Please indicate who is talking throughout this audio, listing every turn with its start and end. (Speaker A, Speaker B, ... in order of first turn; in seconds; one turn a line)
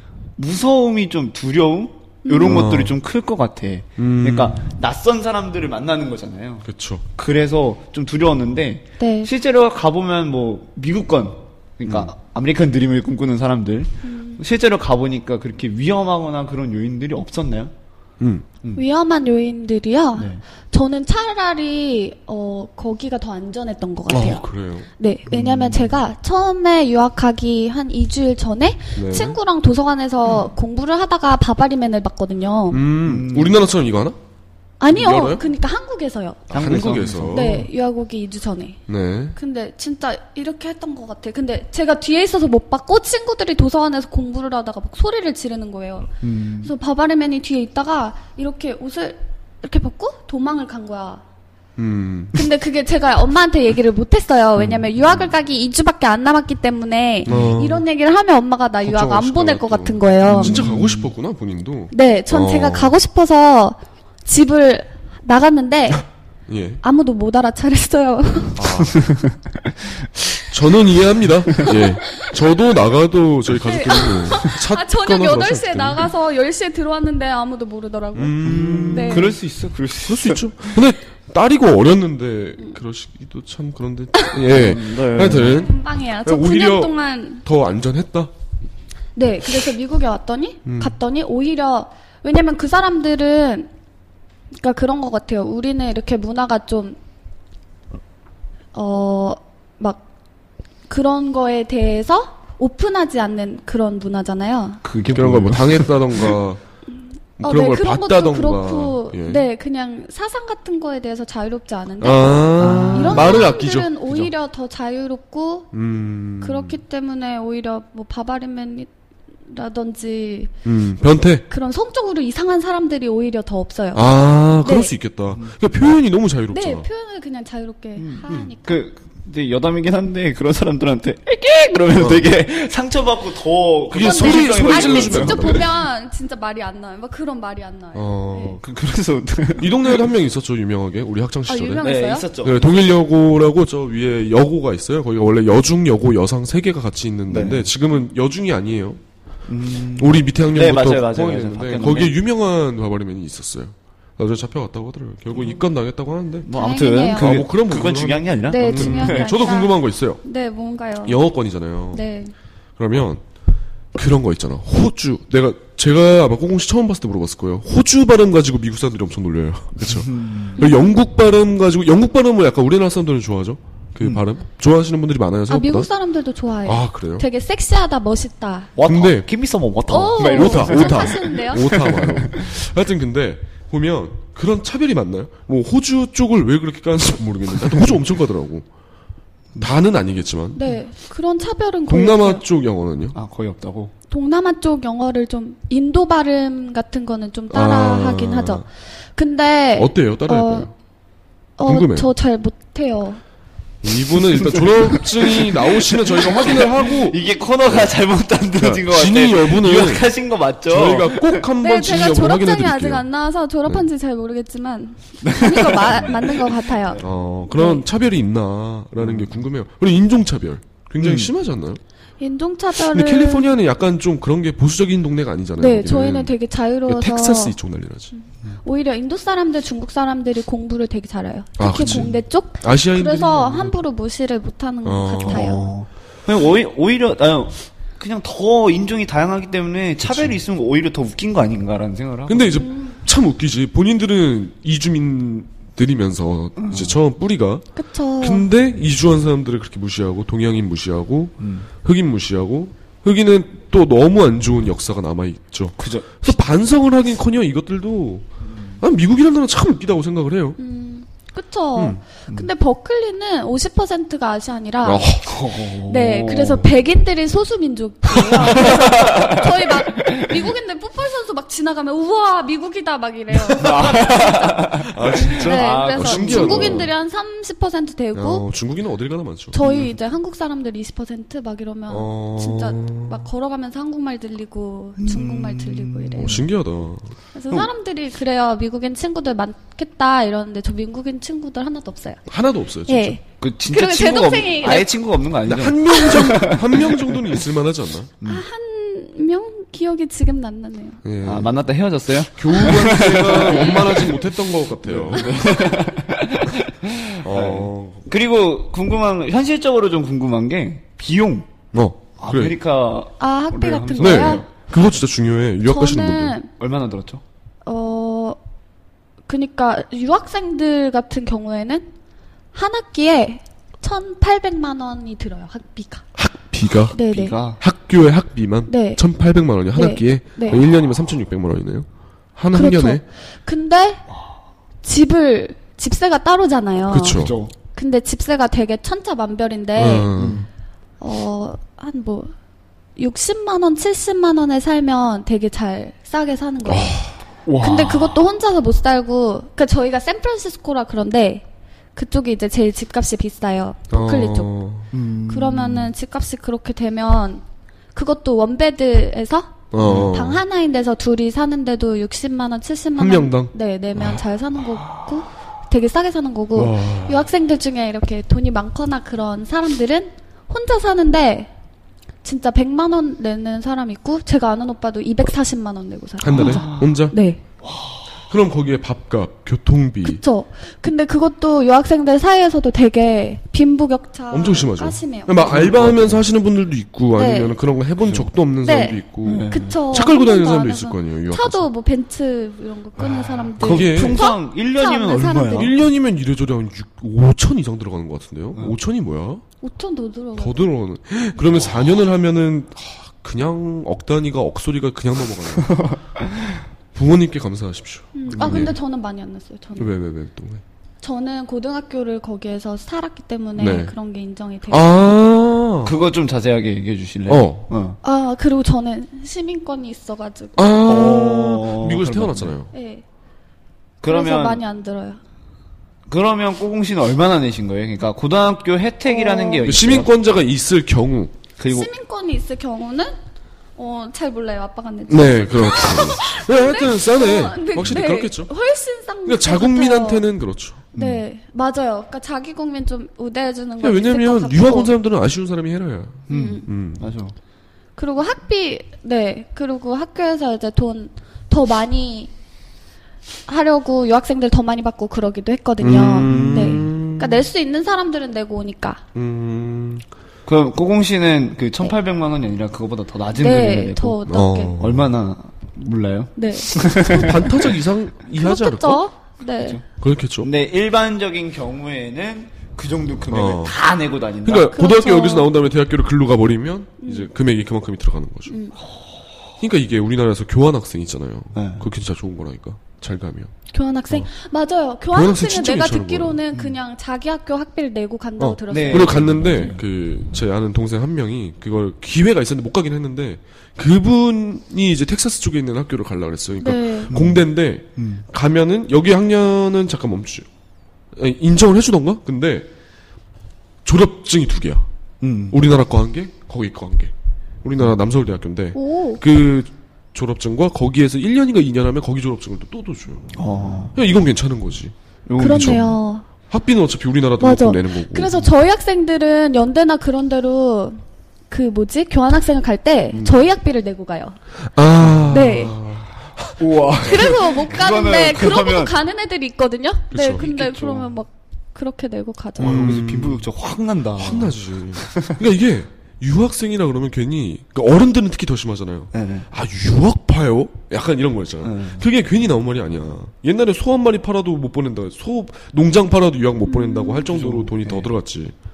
Speaker A: 0.4-17.7
Speaker B: 2.2-2.6
Speaker C: 2.4-3.0
Speaker C: 4.0-4.6
Speaker C: 6.6-7.0
Speaker B: 9.0-9.3
Speaker B: 14.0-14.4
Speaker B: 18.7-24.5
Speaker A: 20.1-20.4
Speaker C: 24.1-24.9
Speaker B: 25.0-32.9
Speaker A: 25.3-26.0
Speaker C: 28.9-29.4
Speaker C: 32.7-34.1
Speaker A: 33.0-33.6
Speaker B: 34.8-36.5
Speaker C: 34.9-35.4
Speaker C: 36.5-37.6
Speaker A: 36.5-37.7
Speaker B: 37.3-38.8
Speaker C: 38.9-39.4
Speaker B: 39.4-46.1
Speaker A: 46.2-46.7
Speaker B: 46.6-51.2
Speaker C: 51.8-52.5
Speaker B: 52.3-60.6
Speaker A: 54.6-54.9
Speaker C: 57.2-57.8
Speaker A: 57.3-57.6
Speaker C: 58.8-62.9
Speaker A: 60.2-61.1
Speaker B: 61.9-66.0
Speaker C: 66.5-66.8
Speaker B: 66.8-68.6
Speaker C: 68.5-69.1
Speaker A: 68.9-69.3
Speaker C: 70.3-76.1
Speaker B: 71.6-72.3
Speaker B: 73.6-78.4
Speaker C: 78.1-79.3
Speaker A: 78.4-80.8
Speaker B: 78.9-79.3
Speaker C: 80.0-88.3
Speaker B: 84.1-84.4
Speaker A: 84.5-85.6
Speaker B: 85.4-87.4
Speaker B: 89.1-93.7
Speaker C: 90.6-91.0
Speaker B: 94.5-97.0
Speaker B: 98.7-100.0
Speaker B: 100.9-104.8
Speaker A: 104.8-106.4
Speaker C: 105.1-106.6
Speaker C: 107.4-109.5
Speaker B: 107.4-115.7
Speaker C: 112.0-114.3
Speaker A: 112.6-113.5
Speaker C: 115.7-116.8
Speaker B: 116.4-118.9
Speaker B: 119.5-120.5
Speaker C: 120.6-121.5
Speaker B: 121.5-124.9
Speaker C: 123.9-126.9
Speaker B: 126.5-128.8
Speaker A: 128.0-135.7
Speaker C: 131.9-132.3
Speaker C: 133.9-135.7
Speaker B: 133.9-138.6
Speaker C: 137.9-138.6
Speaker A: 138.6-140.0
Speaker C: 139.6-149.0
Speaker B: 141.5-142.3
Speaker A: 141.8-142.6
Speaker A: 147.3-147.7
Speaker A: 149.5-152.2
Speaker C: 149.9-156.5
Speaker A: 155.3-155.7
Speaker A: 156.4-159.3
Speaker B: 156.5-157.4
Speaker C: 157.1-160.2
Speaker B: 158.5-161.2
Speaker C: 161.0-162.0
Speaker B: 161.9-162.3
Speaker C: 162.8-163.2
Speaker C: 163.9-175.9
Speaker A: 169.8-170.6
Speaker B: 170.6-170.9
Speaker B: 175.5-178.7
Speaker C: 176.6-177.2
Speaker A: 178.8-182.5
Speaker C: 178.8-179.3
Speaker B: 179.9-181.8
Speaker C: 180.2-188.7
Speaker C: 189.6-190.6
Speaker B: 190.5-192.4
Speaker C: 191.9-193.2
Speaker A: 193.1-193.9
Speaker B: 194.1-200.7
Speaker C: 197.5-198.7
Speaker C: 199.7-200.7
Speaker B: 201.6-203.2
Speaker C: 201.6-202.1
Speaker C: 203.8-208.0
Speaker A: 204.3-211.5
Speaker C: 208.5-210.1
Speaker C: 210.6-213.1
Speaker B: 211.6-217.8
Speaker A: 215.2-217.1
Speaker C: 217.0-221.8
Speaker A: 219.0-219.4
Speaker A: 221.0-221.3
Speaker B: 222.2-223.6
Speaker C: 222.8-226.3
Speaker B: 225.6-227.6
Speaker C: 226.8-228.1
Speaker B: 228.1-235.7
Speaker C: 231.6-233.8
Speaker A: 231.8-232.2
Speaker C: 234.8-235.7
Speaker A: 235.2-242.6
Speaker C: 240.0-240.4
Speaker C: 242.3-247.7
Speaker B: 242.6-243.0
Speaker A: 246.6-247.0
Speaker B: 247.7-248.5
Speaker C: 248.2-258.3
Speaker A: 251.4-251.7
Speaker A: 255.8-256.2
Speaker A: 258.4-258.8
Speaker C: 258.8-260.6
Speaker B: 260.6-265.1
Speaker C: 261.7-262.0
Speaker C: 264.8-265.4
Speaker A: 265.2-266.9
Speaker B: 265.8-278.5
Speaker A: 268.4-270.5
Speaker A: 273.5-276.9
Speaker C: 274.9-276.9
Speaker C: 278.1-279.6
Speaker B: 279.5-286.4
Speaker A: 279.6-279.9
Speaker C: 281.9-283.2
Speaker A: 285.0-286.4
Speaker C: 286.2-287.7
Speaker B: 287.3-292.3
Speaker C: 292.3-293.2
Speaker B: 292.9-294.9
Speaker A: 293.4-297.4
Speaker C: 295.4-298.1
Speaker B: 295.9-296.3
Speaker B: 298.2-301.0
Speaker C: 301.0-301.6
Speaker A: 301.2-304.2
Speaker C: 302.1-305.8
Speaker B: 303.3-303.8
Speaker A: 304.8-311.5
Speaker C: 307.2-308.1
Speaker C: 311.7-312.6
Speaker A: 312.2-314.5
Speaker B: 313.2-314.4
Speaker C: 314.0-316.4
Speaker B: 315.6-316.5
Speaker A: 316.6-317.2
Speaker B: 317.6-318.4
Speaker B: 319.3-321.9
Speaker B: 322.5-326.0
Speaker C: 326.1-327.0
Speaker B: 326.9-327.3
Speaker A: 326.9-327.6
Speaker C: 327.5-333.0
Speaker B: 328.7-329.0
Speaker B: 329.7-330.6
Speaker B: 332.5-334.0
Speaker B: 334.8-340.1
Speaker C: 336.9-337.4
Speaker A: 337.1-337.5
Speaker C: 339.8-340.4
Speaker A: 340.1-340.5
Speaker B: 341.0-342.3
Speaker B: 342.9-347.0
Speaker C: 346.6-347.1
Speaker A: 347.4-348.2
Speaker B: 347.6-354.5
Speaker C: 353.9-354.9
Speaker A: 354.9-355.9
Speaker B: 355.3-371.5
Speaker C: 359.7-360.4
Speaker A: 359.8-360.1
Speaker C: 362.9-364.2
Speaker C: 366.5-367.3
Speaker B: 372.2-377.4
Speaker C: 376.2-377.1
Speaker A: 376.3-377.0
Speaker A: 377.6-378.0
Speaker C: 378.2-380.2
Speaker B: 380.0-385.7
Speaker C: 384.3-391.7
Speaker A: 385.5-386.2
Speaker B: 387.1-387.6
Speaker A: 388.0-388.3
Speaker B: 388.6-395.7
Speaker A: 389.2-389.8
Speaker C: 393.0-394.2
Speaker A: 393.6-395.7
Speaker C: 395.5-399.4
Speaker B: 399.6-400.7
Speaker C: 400.3-406.0
Speaker A: 405.7-406.0
Speaker C: 406.9-408.8
Speaker B: 408.1-409.9
Speaker A: 408.3-408.7
Speaker C: 409.8-410.6
Speaker B: 411.0-415.1
Speaker C: 413.6-413.9
Speaker C: 414.7-415.9
Speaker A: 415.8-418.0
Speaker C: 417.3-417.7
Speaker B: 418.0-420.6
Speaker C: 420.6-422.7
Speaker A: 420.9-422.5
Speaker B: 422.7-423.0
Speaker A: 424.0-424.6
Speaker B: 424.1-425.2
Speaker A: 426.1-430.1
Speaker B: 429.1-429.7
Speaker C: 429.6-431.4
Speaker A: 431.6-431.9
Speaker B: 431.7-433.1
Speaker B: 433.8-440.3
Speaker C: 435.1-438.5
Speaker C: 439.2-440.8
Speaker B: 440.9-444.9
Speaker A: 440.9-441.2
Speaker C: 443.8-447.0
Speaker A: 446.3-447.4
Speaker B: 446.3-446.6
Speaker B: 447.9-452.3
Speaker B: 453.4-459.0
Speaker C: 455.8-457.5
Speaker A: 456.2-456.9
Speaker C: 459.1-460.0
Speaker A: 460.4-464.2
Speaker B: 463.3-464.7
Speaker C: 464.3-465.1
Speaker A: 464.8-467.7
Speaker B: 466.4-467.4
Speaker C: 466.9-469.0
Speaker B: 468.3-469.8
Speaker A: 469.6-469.8
Speaker C: 470.0-470.5
Speaker A: 470.4-474.7
Speaker C: 473.3-473.8
Speaker C: 474.4-478.5
Speaker B: 474.7-475.5
Speaker B: 477.0-477.3
Speaker B: 478.5-478.8
Speaker C: 479.6-483.5
Speaker A: 481.5-481.9
Speaker B: 483.7-489.2
Speaker C: 485.1-486.4
Speaker A: 486.5-486.8
Speaker C: 488.4-500.4
Speaker A: 488.7-489.8
Speaker B: 496.6-497.1
Speaker A: 497.1-498.2
Speaker C: 501.1-502.7
Speaker C: 503.8-504.9
Speaker A: 505.2-505.6
Speaker C: 505.5-507.1
Speaker C: 507.6-513.3
Speaker B: 508.7-509.2
Speaker A: 513.3-514.0
Speaker C: 513.9-516.0
Speaker A: 515.2-516.0
Speaker B: 515.4-516.2
Speaker C: 516.5-518.4
Speaker B: 517.4-524.4
Speaker A: 523.1-523.5
Speaker C: 524.7-527.3
Speaker A: 525.0-525.3
Speaker B: 525.3-525.8
Speaker A: 526.6-529.0
Speaker B: 527.0-532.8
Speaker C: 530.1-530.5
Speaker A: 530.4-531.2
Speaker C: 532.6-533.5
Speaker A: 532.6-535.4
Speaker C: 534.1-548.5
Speaker A: 539.1-539.5
Speaker A: 541.6-542.1
Speaker B: 546.6-547.3
Speaker A: 547.3-548.1